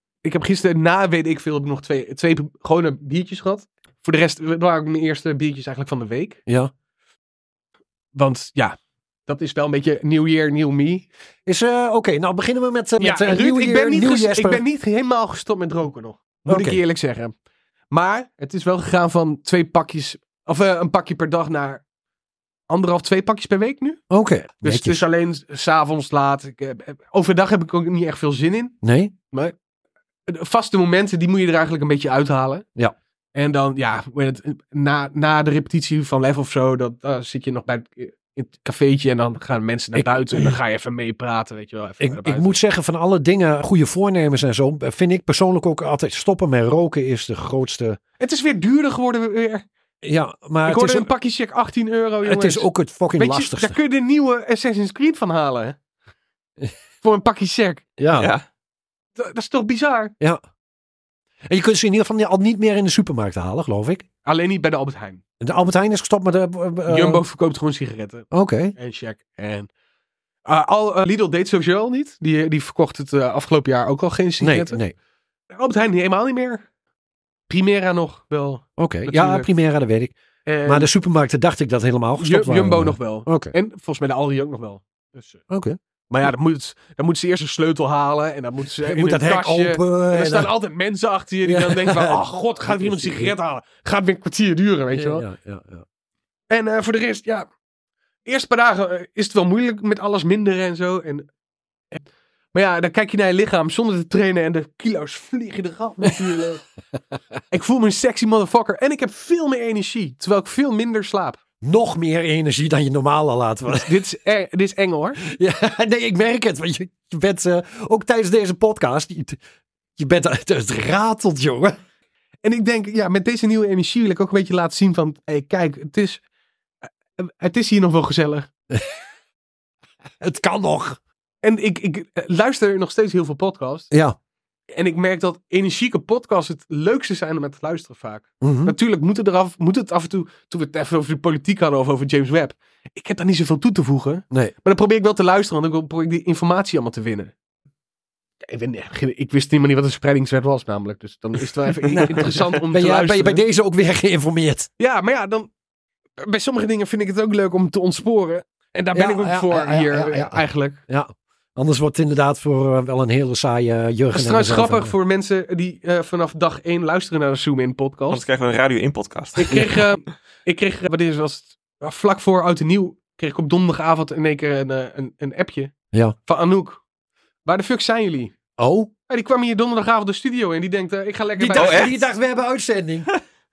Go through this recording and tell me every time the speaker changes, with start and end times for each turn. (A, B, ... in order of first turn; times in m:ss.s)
0:00.2-0:06.4 A
0:06.5-0:06.7 B
0:08.1-0:11.1 A
0:11.5-0:14.6 B
0:13.0-0:17.3 A
0:16.5-0:16.8 B
0:17.9-0:21.8 A
0:22.7-0:24.0 A
0:24.1-0:25.0 B
0:24.6-0:28.8 A
0:28.8-0:29.1 B
0:30.3-0:32.6 A
0:33.4-0:42.6 A
0:40.0-0:40.6 B
0:42.0-0:48.0 B
0:48.2-0:49.7 A
0:50.0-0:51.1 B
0:50.6-0:55.8 A
0:52.2-0:53.8 B
0:57.0-0:57.8 A
0:58.0-0:58.3 B
0:58.2-0:58.4 C
0:59.2-1:00.1 A
1:01.5-1:04.0 B
1:04.2-1:05.2 A
1:05.4-1:07.2 B
1:06.9-1:09.7 A
1:08.3-1:08.8 B
1:10.4-1:14.8 A
1:14.4-1:14.9 B
1:15.5-1:16.6 A
1:17.5-1:19.5 A
1:18.8-1:20.1 B
1:20.5-1:20.9 A
1:20.6-1:23.5 B
1:22.2-1:25.4 A
1:25.5-1:25.8 B
1:26.1-1:35.3 A
1:28.8-1:30.5 B
1:31.4-1:33.3 B
1:34.9-1:35.8 B
1:36.5-1:37.5 A
1:38.3-1:41.3 A
1:41.9-1:46.6 A
1:47.5-1:51.4 A
1:51.6-1:53.9 B
1:53.7-1:55.2 A
1:55.2-1:59.4 B
2:00.0-2:01.8 B
2:02.4-2:06.2 A
2:06.9-2:08.5 A
2:10.2-2:11.0 B
2:11.4-2:13.9 A
2:13.9-2:14.2 B
2:14.7-2:27.3 A
2:18.4-2:18.8 B
2:28.4-2:33.4 A
2:31.9-2:34.7 B
2:34.8-2:35.5 A
2:36.2-2:40.8 A
2:38.9-2:44.9 B
2:44.1-2:48.2 A
2:48.1-2:49.6 C
2:49.4-2:55.7 A
2:56.3-2:56.8 A
2:57.5-2:58.4 A
2:58.6-2:58.9 B
2:59.1-3:01.9 A
3:01.4-3:03.1 B
3:01.5-3:02.0 C